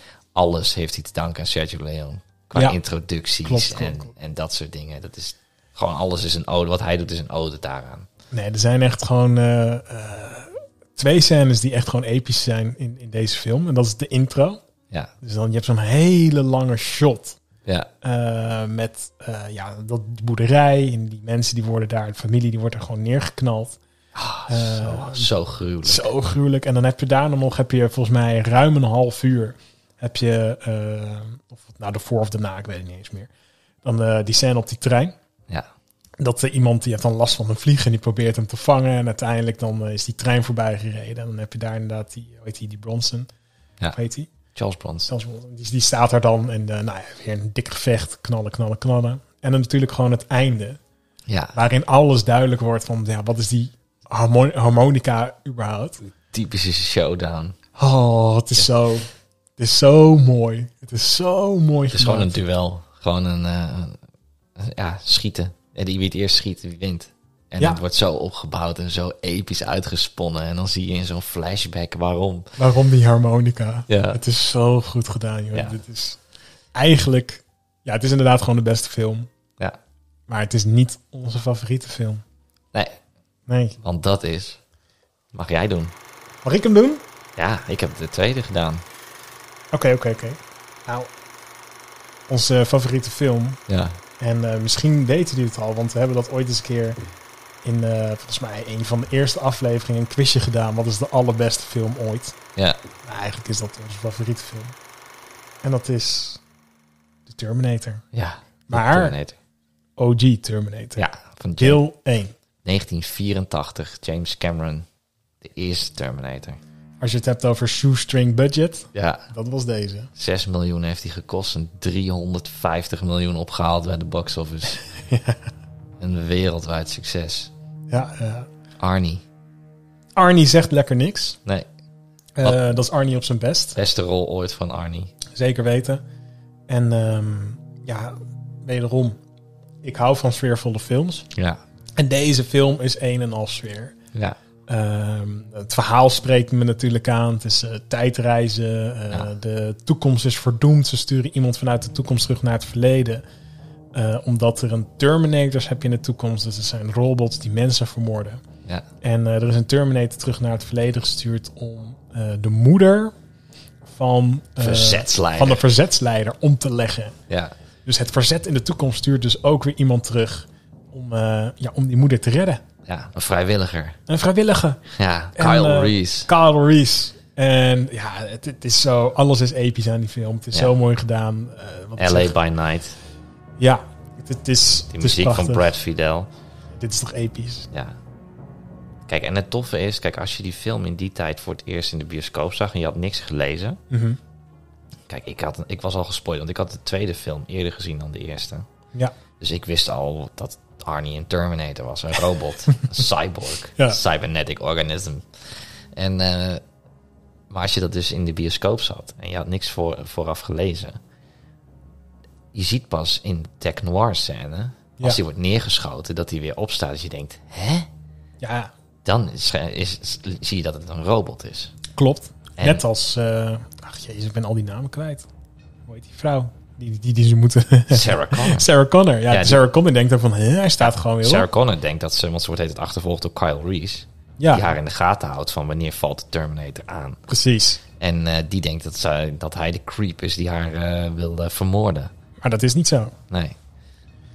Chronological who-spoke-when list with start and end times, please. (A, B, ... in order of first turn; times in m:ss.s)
0:00.4-0:08.1 A
0:03.4-0:04.1 B
0:08.3-0:14.6 B
0:15.2-0:17.4 B
0:18.0-0:23.8 B
0:24.2-0:26.1 A
0:24.5-0:25.3 B
0:25.8-0:33.3 B
0:33.8-0:35.2 B
0:36.2-0:43.3 B
0:43.9-0:44.3 B
0:44.6-0:45.1 A
0:45.1-0:50.8 B
0:51.3-0:51.6 A
0:51.5-0:56.0 B
0:56.2-0:57.6 A
0:57.8-1:02.4 B
1:01.9-1:04.0 A
1:04.6-1:12.5 A
1:12.6-1:16.2 B
1:13.9-1:14.2 A
1:16.7-1:19.3 B
1:20.3-1:22.2 B
1:23.5-1:23.8 B
1:23.8-1:24.6 A
1:25.3-1:25.9 A
1:26.4-1:27.0 B
1:27.4-1:28.8 A
1:29.7-1:31.1 B
1:32.3-1:33.6 B
1:33.7-1:34.0 A
1:34.2-1:37.0 B
1:37.6-1:42.4 B
1:43.0-1:44.8 B
1:45.6-1:46.4 B
1:47.3-1:48.0 B
1:48.1-1:49.4 A
1:48.7-1:49.2 B
1:50.0-1:51.0 B
1:51.0-1:51.8 A
1:51.6-1:52.3 B
1:52.6-1:54.9 A
1:55.4-1:56.6 A
1:57.0-2:00.1 B
1:58.9-1:59.3 A
2:00.2-2:04.8 A
2:04.9-2:05.4 B
2:06.0-2:07.5 A
2:07.9-2:08.5 B
2:08.8-2:09.2 A
2:10.2-2:11.4 B
2:12.4-2:13.8 B
2:13.8-2:15.1 A
2:15.3-2:16.0 B
2:16.7-2:19.2 B
2:19.8-2:21.3 B
2:21.4-2:21.6 A
2:22.0-2:24.0 B
2:24.7-2:33.2 B
2:33.9-2:38.4 B
2:39.0-2:43.1 B
2:43.9-2:47.2 B
2:44.6-2:45.6 A
2:47.8-2:52.6 B
2:52.9-2:54.0 A
2:54.1-2:54.8 B
2:54.9-2:56.3 A
2:55.4-3:02.4 B
3:02.0-3:03.0 A
3:03.6-3:05.7 B
3:04.9-3:06.3 A
3:06.7-3:07.7 B
3:09.1-3:13.8 A
3:13.9-3:14.2 B
3:15.1-3:18.7 A
3:19.4-3:26.6 A
3:27.5-3:31.0 A
3:32.5-3:37.9 A
3:38.4-3:38.7 B
3:39.0-3:41.8 A
3:41.9-3:45.3 B
3:42.6-3:42.8 A
3:45.9-3:51.5 B
3:47.9-3:48.7 A
3:49.3-3:49.6 A
3:50.8-3:57.2 A
3:54.4-3:54.7 B
3:57.3-3:57.8 B
3:58.0-4:02.1 A
4:02.4-4:03.2 B
4:03.3-4:03.6 A